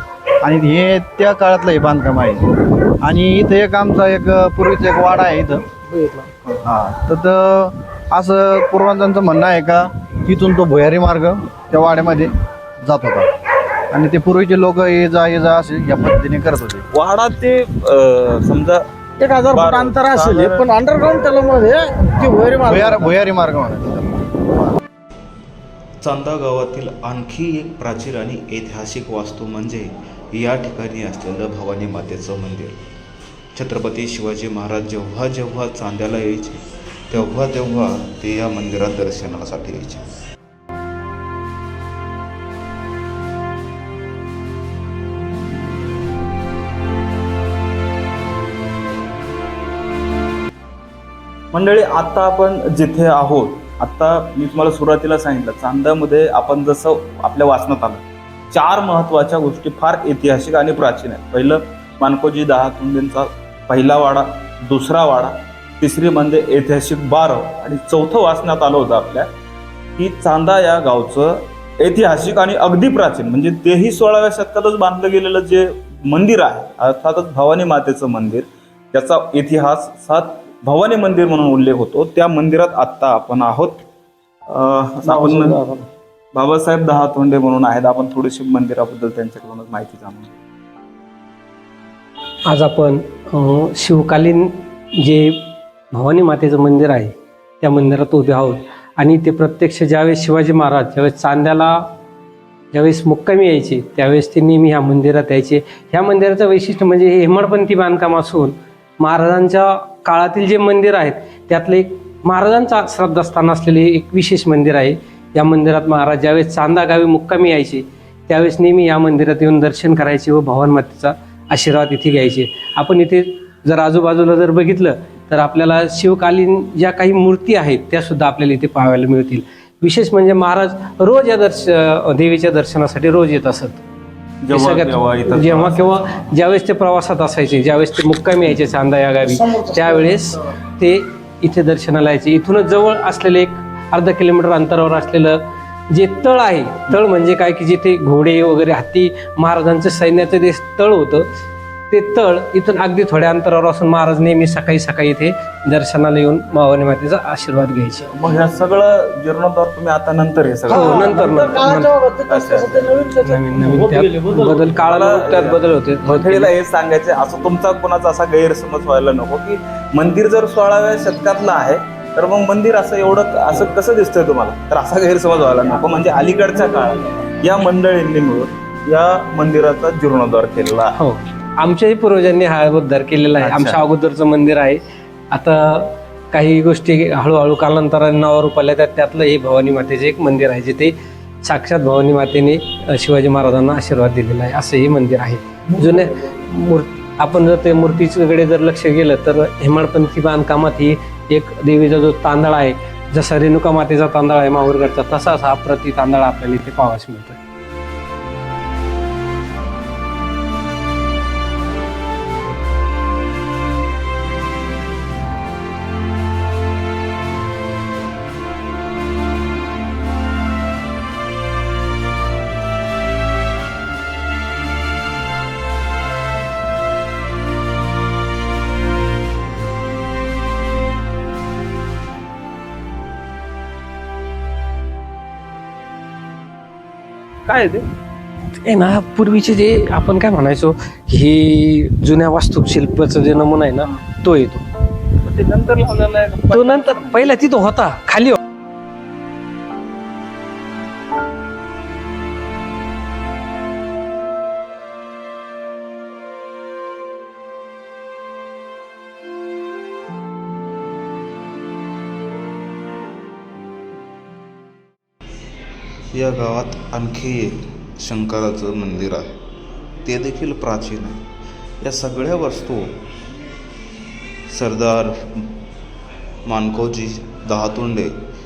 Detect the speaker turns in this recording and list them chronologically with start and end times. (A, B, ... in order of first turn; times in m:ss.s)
0:00.4-0:02.4 A
0:03.0-0:05.6 A
0:06.6-0:13.3 A
0:13.9-0:16.8 A
0:16.9-0:18.8 B
0:19.2-0:23.2 C
0:19.5-0:20.7 B
0:22.7-0:24.8 A
0:26.0-0:32.8 D
0:33.5-0:40.0 D
0:51.5-1:09.3 B
1:10.0-1:23.8 B
1:24.5-1:25.6 B
1:25.1-1:25.6 C
1:26.3-1:30.4 B
1:32.5-1:41.8 E
1:42.7-2:13.8 E
2:14.4-2:16.2 B
2:14.5-2:31.2 E
2:31.9-2:38.1 E
2:38.1-2:41.3 B
2:40.7-2:41.9 E
2:40.7-2:44.4 C
2:42.3-2:42.9 B
2:43.2-2:46.5 E
2:44.7-3:00.9 B
3:00.9-3:04.8 E
3:03.4-3:03.8 B
3:05.3-3:27.4 E
3:57.4-3:57.8 B
3:58.6-4:04.6 E
4:05.2-4:07.4 B
4:06.5-4:08.4 E
4:26.1-4:29.3 D
4:30.0-4:31.2 D
4:31.8-4:32.8 D
4:34.5-4:35.2 D
4:36.4-4:38.2 D